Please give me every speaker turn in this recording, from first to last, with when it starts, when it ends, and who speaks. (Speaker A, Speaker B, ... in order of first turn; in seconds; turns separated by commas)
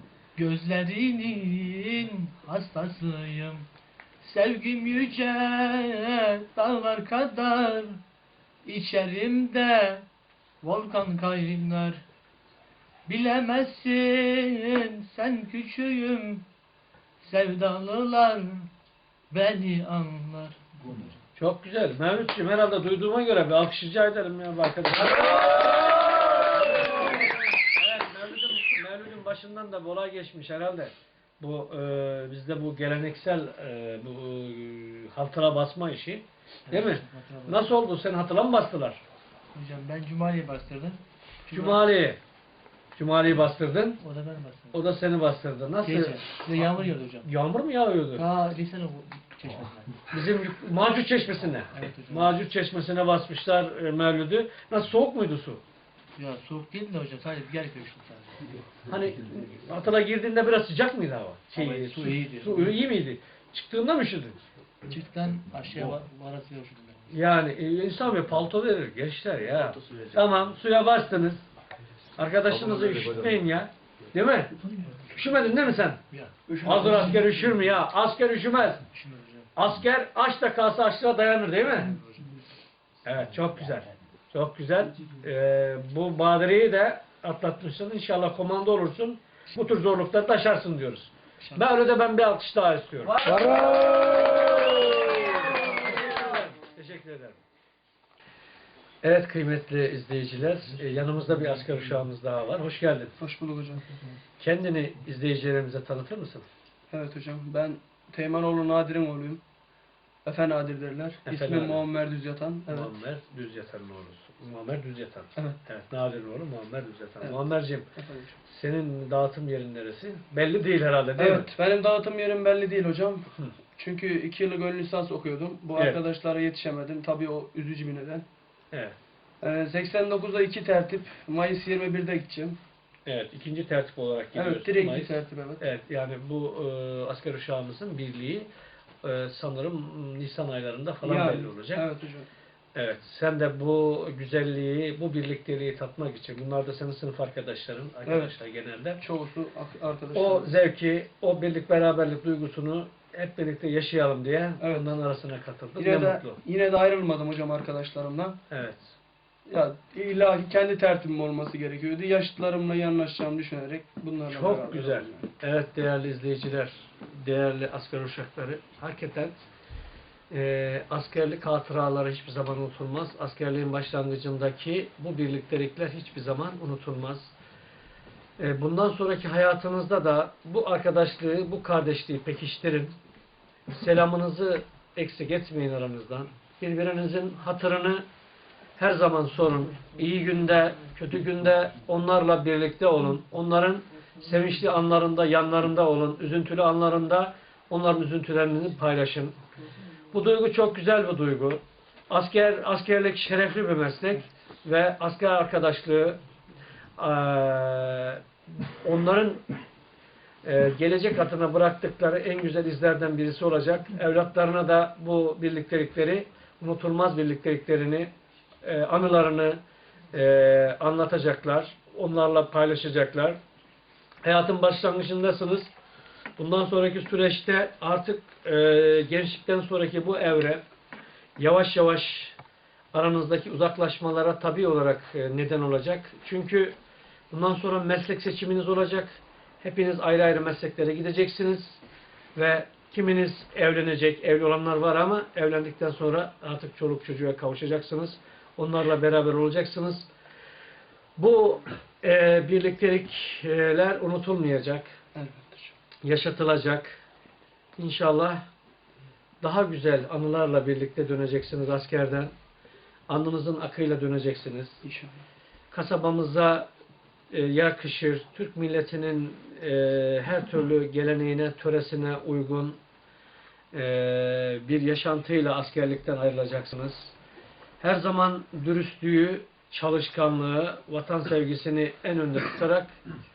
Speaker A: 0.4-3.6, Speaker A: 4.2-8.0, Speaker A: 8.7-10.1, Speaker A: 10.6-12.0, Speaker A: 13.1-16.4, Speaker A: 17.2-18.7, Speaker A: 19.3-21.0, Speaker B: 21.4-25.9, Speaker B: 26.4-39.0, Speaker A: 36.7-37.8, Speaker A: 39.5-41.8, Speaker B: 41.5-42.2, Speaker B: 42.9-44.0, Speaker A: 44.0-44.9, Speaker B: 44.7-46.4, Speaker A: 45.8-47.3, Speaker B: 47.2-48.3, Speaker A: 48.1-49.9, Speaker B: 50.1-55.6, Speaker A: 51.7-52.4, Speaker A: 56.2-58.5, Speaker B: 58.9-64.4, Speaker A: 61.6-62.9, Speaker A: 64.9-67.2, Speaker B: 67.1-71.4, Speaker B: 72.2-74.5, Speaker A: 74.8-75.3, Speaker B: 75.1-76.0, Speaker C: 76.5-76.9, Speaker B: 76.6-78.8, Speaker A: 76.9-77.2, Speaker A: 78.9-79.5, Speaker B: 79.5-82.0, Speaker A: 81.7-82.4, Speaker B: 83.0-93.3, Speaker B: 95.0-97.4, Speaker B: 99.0-103.1, Speaker C: 103.2-103.8, Speaker B: 104.4-106.5, Speaker C: 106.9-109.4, Speaker C: 110.2-112.9, Speaker B: 111.2-111.9, Speaker B: 112.7-117.9, Speaker C: 118.0-118.3, Speaker B: 118.5-121.5, Speaker C: 121.2-123.2, Speaker C: 123.8-128.2, Speaker B: 125.7-126.0, Speaker C: 129.4-132.6, Speaker B: 133.1-138.5, Speaker C: 134.3-135.7, Speaker B: 139.0-141.9, Speaker C: 141.0-142.3, Speaker B: 142.7-149.0, Speaker C: 148.1-148.3, Speaker C: 149.0-150.5, Speaker B: 150.1-156.4, Speaker C: 154.6-154.9, Speaker C: 155.8-158.4, Speaker B: 158.5-159.0, Speaker C: 159.5-165.2, Speaker B: 164.3-169.4, Speaker B: 170.3-177.3, Speaker B: 178.4-182.9, Speaker B: 183.7-188.0, Speaker B: 188.8-199.3, Speaker B: 200.1-206.2, Speaker B: 207.0-208.2, Speaker B: 208.8-209.4, Speaker B: 210.4-218.1, Speaker B: 218.6-219.6, Speaker B: 220.1-223.4, Speaker B: 224.2-225.7, Speaker B: 226.4-230.6, Speaker B: 231.4-232.4, Speaker B: 232.9-236.8, Speaker B: 237.3-241.8, Speaker B: 242.3-250.1, Speaker B: 251.2-254.9, Speaker C: 255.1-255.7, Speaker B: 256.0-257.0, Speaker B: 257.8-258.4, Speaker B: 259.4-262.3, Speaker B: 263.1-264.8, Speaker C: 264.8-265.2, Speaker B: 265.7-266.7, Speaker B: 267.3-272.8, Speaker B: 273.7-277.1, Speaker B: 277.8-282.9